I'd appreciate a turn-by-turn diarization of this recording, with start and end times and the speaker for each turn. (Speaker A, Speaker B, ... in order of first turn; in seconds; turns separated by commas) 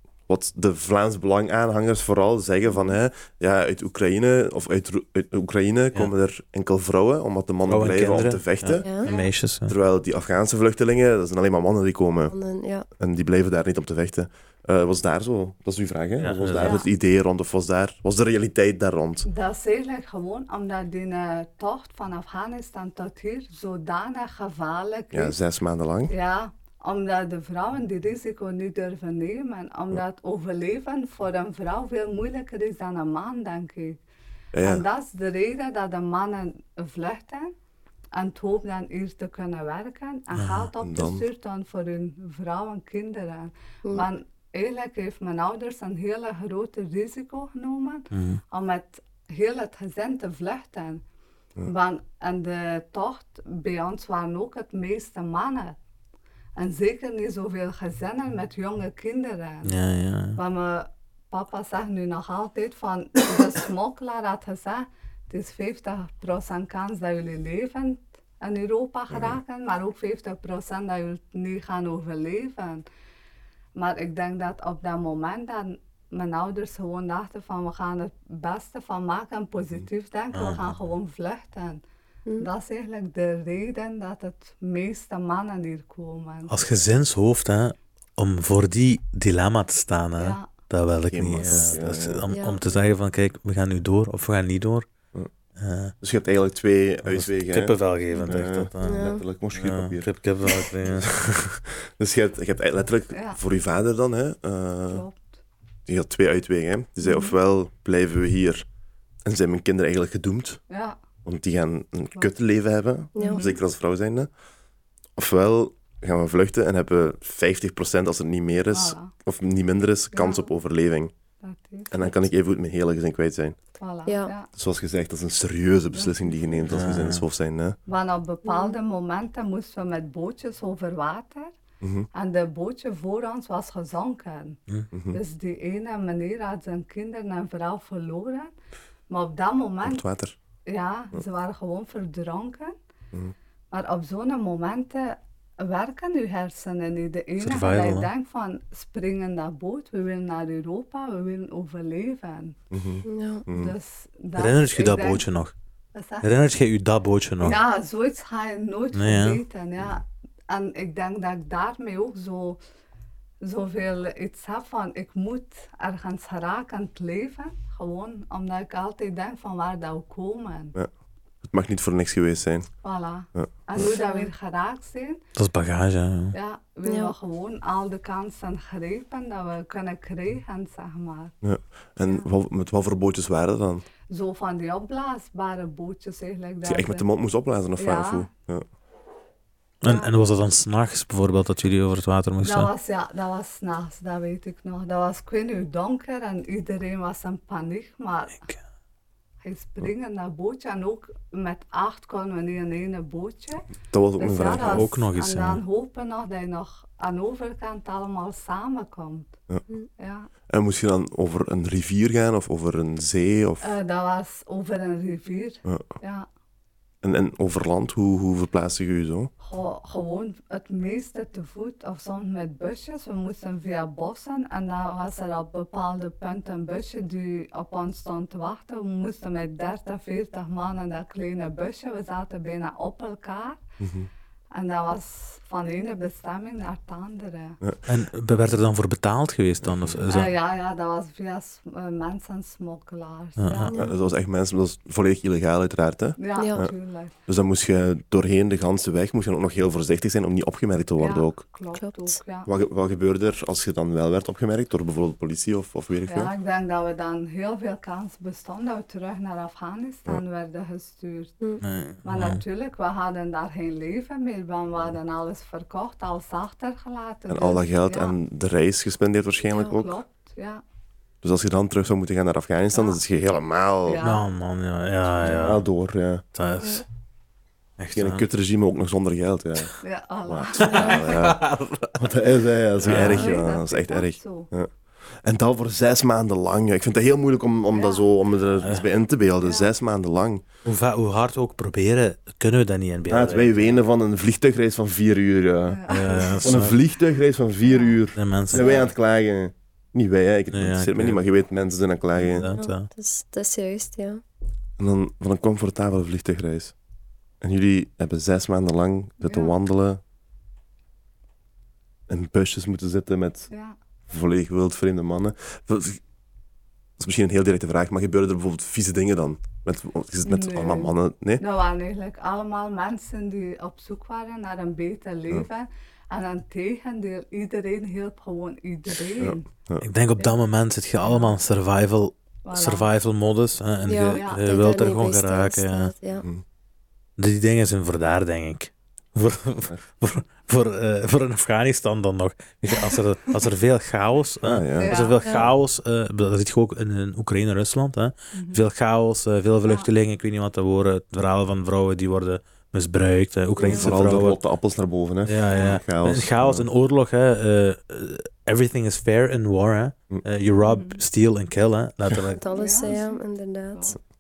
Speaker A: 0.3-8.9, Speaker B: 7.7-9.7, Speaker C: 8.8-9.1, Speaker D: 9.0-9.3, Speaker A: 9.7-12.3, Speaker C: 12.3-12.8, Speaker A: 13.0-19.3, Speaker B: 16.2-16.8, Speaker D: 16.6-16.9, Speaker D: 19.3-25.4, Speaker A: 25.1-26.1, Speaker D: 26.1-34.0, Speaker A: 34.5-34.8, Speaker D: 34.6-37.5, Speaker D: 38.1-51.0, Speaker B: 40.4-40.7, Speaker A: 40.8-41.3, Speaker B: 48.1-48.4, Speaker D: 51.6-55.8, Speaker D: 56.6-59.8, Speaker B: 59.6-60.4, Speaker D: 60.4-72.8, Speaker A: 69.1-69.4, Speaker D: 73.8-81.8, Speaker B: 80.3-80.7, Speaker D: 82.4-86.5, Speaker B: 86.5-94.9, Speaker D: 90.2-90.5, Speaker A: 91.1-92.3, Speaker C: 91.5-91.7, Speaker C: 92.3-92.6, Speaker B: 95.6-96.0, Speaker A: 96.0-97.7, Speaker B: 97.0-101.1, Speaker A: 98.2-100.1, Speaker C: 98.8-99.2, Speaker A: 100.8-105.0, Speaker D: 103.1-103.4, Speaker D: 104.9-105.4, Speaker A: 105.9-108.7, Speaker D: 107.0-107.3, Speaker A: 109.2-110.6, Speaker D: 110.7-111.0, Speaker A: 111.2-114.3, Speaker C: 113.2-113.4, Speaker D: 113.2-113.6, Speaker A: 115.2-121.1, Speaker D: 118.7-119.1, Speaker D: 120.1-120.5, Speaker D: 121.4-122.2, Speaker A: 121.9-123.6, Speaker D: 123.8-124.5, Speaker C: 124.1-124.3, Speaker A: 124.5-127.8, Speaker D: 125.9-126.3, Speaker B: 126.7-127.2, Speaker D: 127.9-131.6, Speaker A: 131.8-132.1, Speaker D: 132.1-134.6, Speaker A: 134.9-135.2, Speaker D: 135.1-138.5, Speaker D: 139.1-140.1, Speaker A: 139.8-140.4, Speaker D: 140.7-142.8, Speaker D: 143.7-152.6, Speaker B: 147.4-148.1, Speaker A: 152.7-153.7, Speaker C: 153.1-153.4, Speaker D: 153.5-155.2, Speaker B: 154.4-155.5, Speaker D: 155.9-156.3, Speaker B: 156.2-157.6, Speaker D: 157.4-162.6, Speaker B: 158.9-159.4, Speaker D: 163.4-170.8, Speaker A: 171.4-172.8, Speaker D: 172.8-175.2, Speaker A: 173.3-173.8, Speaker C: 174.0-174.3, Speaker B: 175.4-176.3, Speaker D: 176.3-181.3, Speaker C: 176.8-177.1, Speaker A: 181.4-183.8, Speaker D: 184.1-187.1, Speaker A: 186.7-188.7, Speaker D: 187.8-188.3, Speaker B: 189.8-192.7, Speaker D: 189.8-190.1, Speaker D: 192.4-198.4, Speaker D: 199.4-209.4, Speaker A: 203.9-204.9, Speaker B: 204.6-205.6, Speaker D: 210.0-210.3, Speaker A: 210.5-213.7, Speaker D: 213.6-216.3, Speaker A: 217.0-219.3, Speaker D: 219.4-233.6, Speaker A: 233.8-234.1, Speaker D: 234.5-237.6, Speaker B: 237.9-240.3, Speaker A: 239.6-240.0, Speaker D: 240.1-243.9, Speaker B: 243.4-243.7, Speaker C: 243.7-243.9, Speaker A: 243.8-246.7, Speaker D: 246.2-247.2, Speaker C: 246.4-246.6, Speaker A: 247.3-251.4, Speaker D: 251.0-252.5, Speaker C: 251.7-252.2, Speaker A: 252.5-256.3, Speaker D: 256.1-261.4, Speaker B: 261.6-262.4, Speaker D: 262.0-268.1, Speaker A: 267.3-270.0, Speaker D: 269.5-270.6, Speaker A: 271.2-274.0, Speaker D: 272.7-273.0, Speaker D: 273.9-274.3, Speaker B: 274.0-275.6, Speaker D: 275.1-275.6, Speaker A: 275.3-276.2, Speaker B: 276.4-276.8, Speaker B: 277.8-278.2, Speaker A: 277.9-279.7, Speaker D: 279.8-281.1, Speaker A: 280.3-281.4, Speaker B: 280.6-282.0, Speaker A: 282.0-284.7, Speaker B: 282.8-283.4, Speaker D: 282.8-284.5, Speaker A: 285.2-290.4, Speaker D: 287.7-288.1, Speaker B: 288.6-288.9, Speaker D: 289.4-289.7, Speaker B: 290.6-293.8, Speaker A: 293.1-295.8, Speaker D: 295.7-296.4, Speaker B: 295.9-296.8, Speaker A: 296.4-302.5, Speaker D: 297.6-298.0, Speaker B: 298.2-298.8, Speaker C: 298.5-298.9, Speaker B: 300.5-301.2, Speaker B: 302.2-302.9, Speaker C: 302.5-304.2, Speaker A: 304.8-306.7, Speaker A: 307.4-310.0, Speaker D: 309.2-309.5, Speaker A: 312.1-313.5, Speaker D: 313.5-313.8, Speaker A: 314.1-316.0, Speaker A: 317.0-321.4, Speaker D: 320.2-329.5, Speaker A: 329.2-329.9, Speaker B: 329.8-335.9, Speaker D: 331.0-331.3, Speaker D: 332.4-332.9, Speaker C: 333.9-336.3, Speaker D: 334.1-334.6, Speaker B: 337.2-354.4, Speaker A: 344.4-345.0, Speaker D: 344.8-345.3, Speaker C: 345.2-345.5, Speaker D: 348.3-348.6, Speaker C: 353.6-353.9, Speaker A: 353.6-356.7, Speaker B: 355.2-362.4, Speaker D: 355.5-355.8, Speaker D: 360.6-361.0, Speaker C: 362.4-363.9, Speaker D: 362.4-363.2, Speaker D: 363.7-364.0